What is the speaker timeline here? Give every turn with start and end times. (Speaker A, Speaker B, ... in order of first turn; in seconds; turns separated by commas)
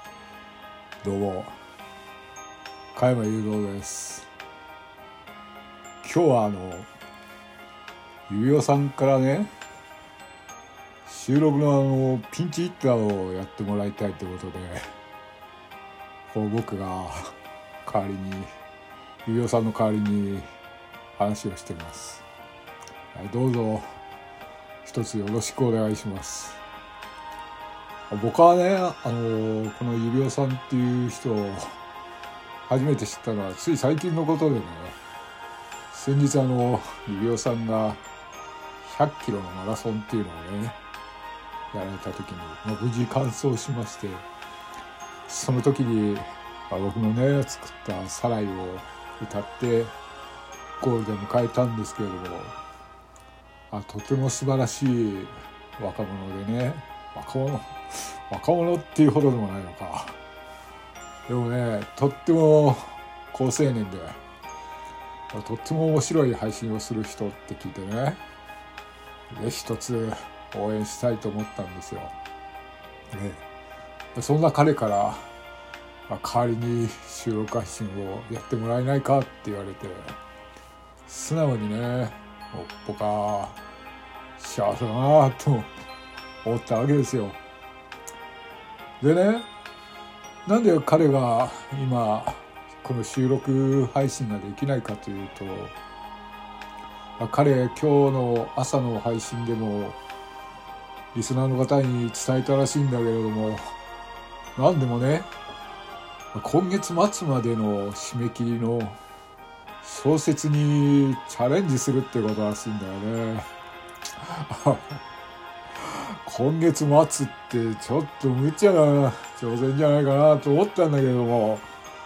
Speaker A: 1.0-1.6, Speaker A: 3.0-4.3, Speaker A: 6.0-6.9, Speaker A: 8.3-9.5, Speaker A: 11.1-14.8, Speaker A: 16.3-18.5, Speaker A: 19.2-20.5, Speaker A: 21.1-22.2, Speaker A: 23.1-23.9, Speaker A: 24.8-26.6, Speaker A: 28.1-31.8, Speaker A: 32.7-35.0, Speaker A: 35.9-38.0, Speaker A: 38.8-40.8, Speaker A: 41.7-44.3, Speaker A: 45.3-50.0, Speaker A: 50.8-52.6, Speaker A: 53.7-60.2, Speaker A: 61.3-64.2, Speaker A: 65.3-68.2, Speaker A: 69.3-72.1, Speaker A: 73.1-73.5, Speaker A: 74.1-75.3, Speaker A: 76.1-80.2, Speaker A: 81.1-83.6, Speaker A: 84.4-85.7, Speaker A: 86.4-87.4, Speaker A: 89.0-89.5, Speaker A: 90.5-95.8, Speaker A: 97.2-100.0, Speaker A: 101.1-103.6, Speaker A: 104.6-105.3, Speaker A: 106.3-109.0, Speaker A: 109.8-113.5, Speaker A: 114.2-115.0, Speaker A: 115.8-121.7